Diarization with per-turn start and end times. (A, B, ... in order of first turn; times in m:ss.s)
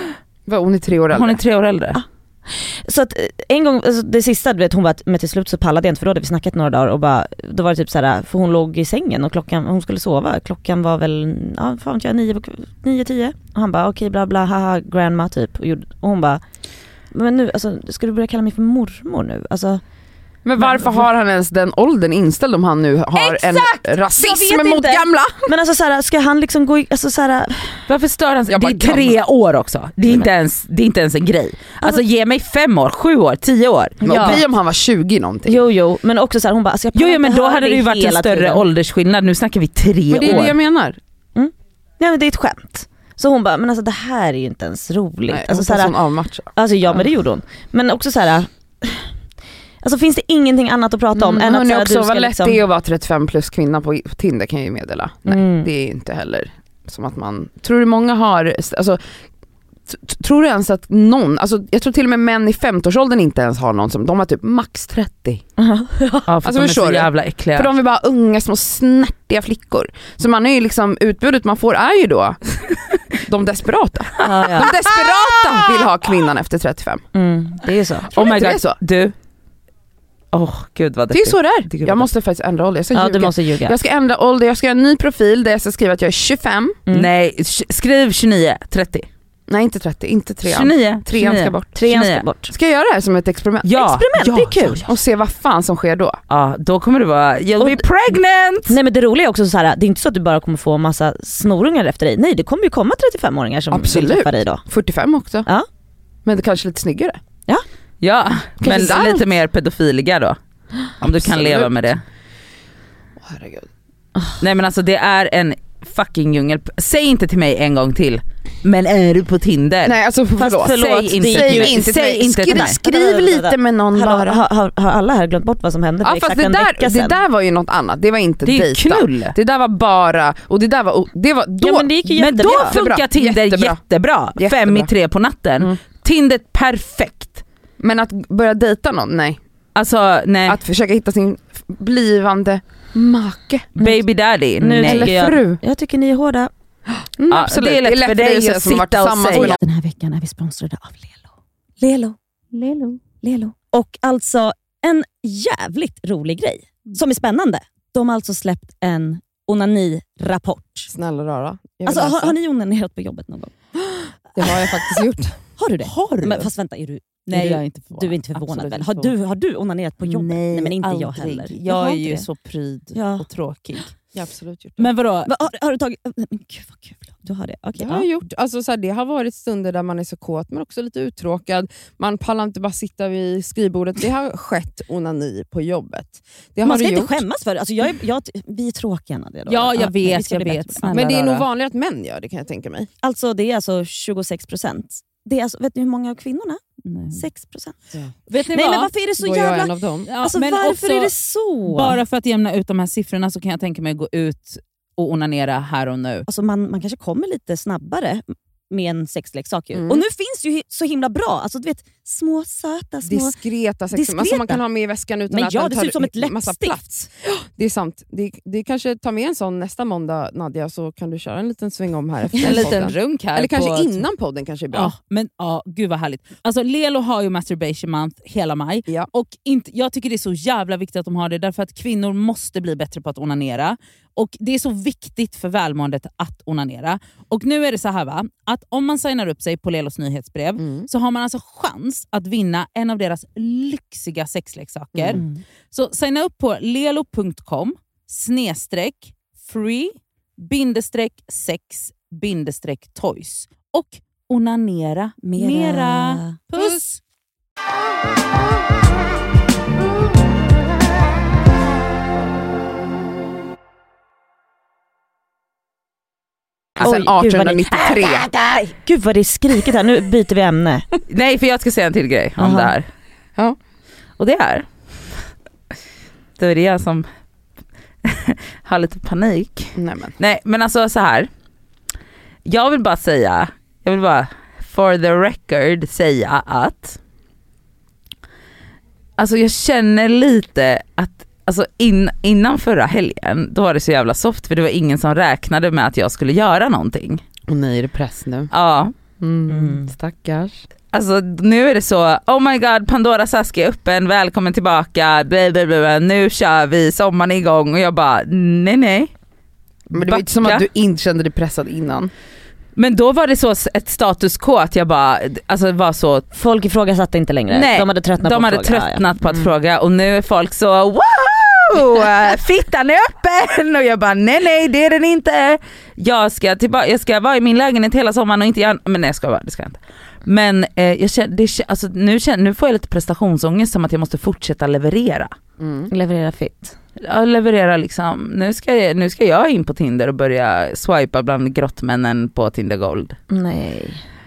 0:00.5-0:01.4 A
0:01.1-0:02.0 B
0:01.9-0:16.4 C
0:17.1-0:19.8 C
0:20.4-0:25.4 A
0:23.2-0:27.7 C
0:27.9-0:34.4 B
0:28.5-0:29.2 A
0:34.0-0:34.4 C
0:34.0-0:35.6 A
0:35.4-0:38.6 C
0:36.9-0:40.6 B
0:40.1-0:41.0 A
0:41.4-0:45.9 C
0:45.3-0:46.5 A
0:46.5-0:49.1 C
0:49.8-0:52.6 C
0:51.1-0:59.0 A
0:55.3-0:55.7 C
0:59.9-1:05.4 A
1:05.6-1:06.2 C
1:06.2-1:07.7 B
1:06.4-1:12.4 A
1:13.1-1:17.0 A
1:14.2-1:14.7 C
1:14.7-1:15.0 B
1:17.1-1:18.2 C
1:18.1-1:18.8 A
1:18.1-1:19.1 B
1:20.3-1:22.1 B
1:21.1-1:26.8 A
1:22.9-1:23.8 C
1:26.9-1:29.1 B
1:29.5-1:31.8 A
1:30.4-1:32.2 B
1:31.7-1:32.5 C
1:32.5-1:33.9 A
1:33.6-1:34.9 B
1:33.7-1:34.8 C
1:34.8-1:36.2 A
1:36.3-1:38.8 B
1:38.7-1:44.6 C
1:43.7-1:45.5 A
1:46.2-1:47.2 A
1:48.0-1:50.4 B
1:48.6-1:49.2 A
1:51.0-1:52.0 B
1:51.0-1:51.7 A
1:53.2-1:53.7 A
1:54.4-2:00.0 B
1:59.8-2:04.4 A
2:00.4-2:01.9 C
2:00.6-2:02.8 B
2:02.5-2:07.2 C
2:06.0-2:13.8 A
2:08.4-2:09.3 B
2:11.6-2:12.8 C
2:12.2-2:17.4 B
2:14.3-2:14.9 A
2:17.8-2:19.4 A
2:19.7-2:20.6 B
2:20.5-2:23.7 A
2:23.8-2:25.2 B
2:24.6-2:26.5 C
2:24.8-2:25.6 A
2:27.2-2:29.6 A
2:27.3-2:29.6 B
2:29.3-2:31.2 C
2:31.8-2:40.9 C
2:40.9-2:42.3 A
2:41.8-2:43.5 C
2:44.4-2:45.4 A
2:44.4-2:45.0 C
2:45.6-2:52.3 C
2:45.8-2:46.5 B
2:47.3-2:49.1 B
2:50.0-2:53.9 B
2:52.9-2:53.3 C
2:54.1-2:54.9 A
2:54.8-2:55.3 B
2:55.2-2:58.1 C
2:57.8-3:07.2 A
3:06.6-3:10.9 C
3:09.5-3:11.4 B
3:10.9-3:12.9 A
3:13.0-3:16.6 C
3:16.8-3:17.2 B
3:17.1-3:17.8 C
3:18.3-3:18.9 B
3:18.5-3:22.0 C
3:19.2-3:20.1 A
3:20.1-3:21.1 B
3:21.6-3:26.2 B
3:26.3-3:33.3 C
3:29.7-3:30.0 A
3:33.0-3:44.9 A
3:33.9-3:34.6 C
3:35.3-3:37.1 C
3:42.4-3:44.0 B
3:44.7-4:17.0 B
4:00.6-4:00.9 A
4:04.9-4:05.2 A
4:05.1-4:05.4 C
4:15.3-4:16.4 C
4:26.8-4:28.3 A
4:26.8-4:28.1 C
4:28.6-4:30.8 C
4:31.1-4:32.9 B
4:32.4-4:32.7 C
4:34.2-4:35.1 B
4:36.4-4:37.1 B
4:38.0-4:41.3 B
4:39.8-4:40.2 A
4:42.4-4:47.0 B
4:49.2-4:57.2 B
4:57.5-4:58.5 A
4:58.5-4:58.9 B
4:59.2-5:00.6 A
4:59.5-4:59.9 C
5:00.9-5:09.1 B
5:09.9-5:12.1 A
5:09.9-5:10.6 B
5:12.8-5:16.2 B
5:16.3-5:19.4 C
5:17.5-5:35.3 B
5:35.6-5:35.9 A
5:35.9-5:36.7 C
5:37.0-5:43.2 B
5:43.3-5:44.0 C